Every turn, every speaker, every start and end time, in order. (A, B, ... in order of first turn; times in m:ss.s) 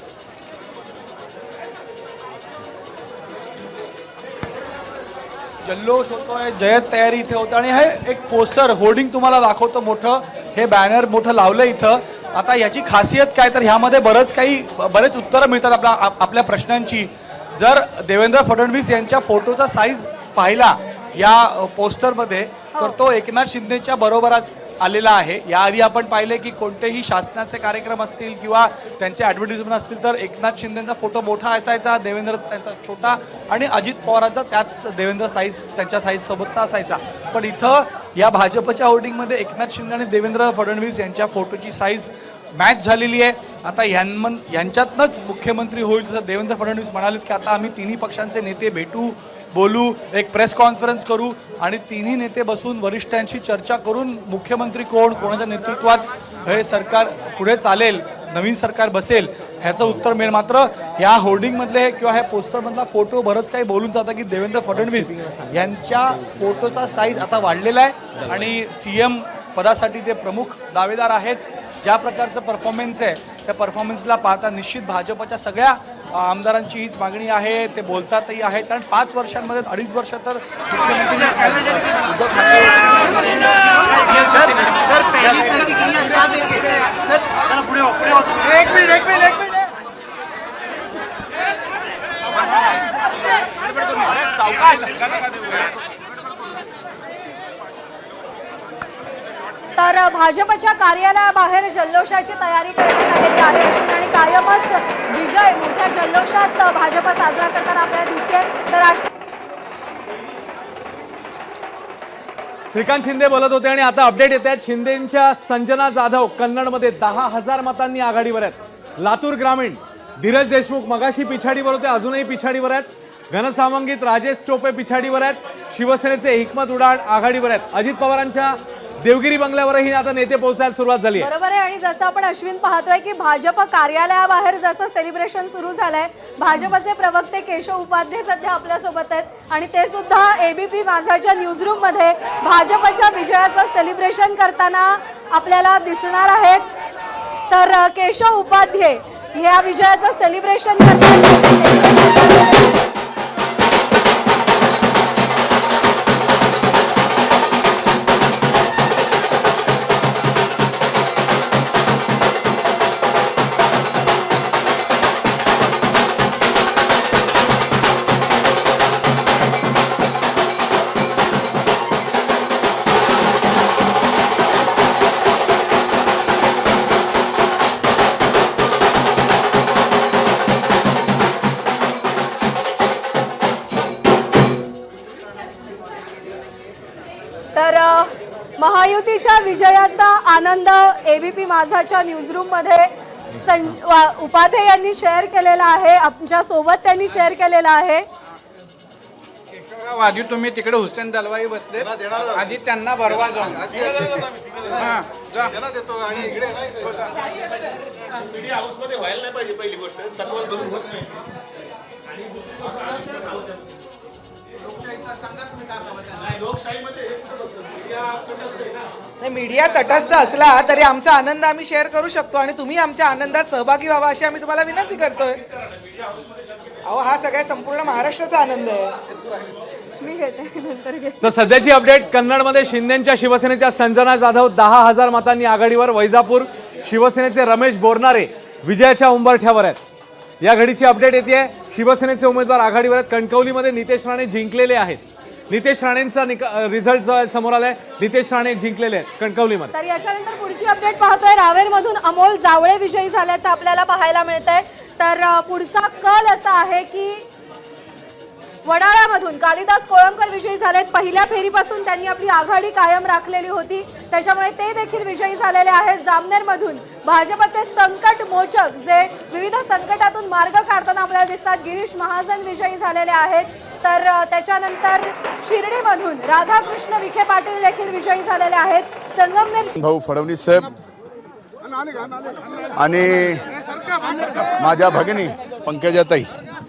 0:05.6-1:23.4 A
0:22.7-0:23.0 B
1:25.2-1:26.1 A
1:39.8-1:49.1 B
1:52.7-2:11.3 C
2:11.2-2:26.6 B
2:27.5-2:32.8 B
3:07.5-3:18.0 B
3:19.7-3:23.6 D
3:28.1-3:31.2 E
3:32.1-3:33.6 E
3:36.2-3:38.9 E
3:39.2-3:45.4 F
3:46.8-3:48.9 F
3:50.0-3:51.4 B
3:51.2-3:59.8 C
4:00.4-4:09.7 C
4:09.7-4:17.2 B
4:18.6-4:39.7 B
4:39.8-4:40.7 G
4:42.8-4:43.4 G
4:44.6-4:46.3 G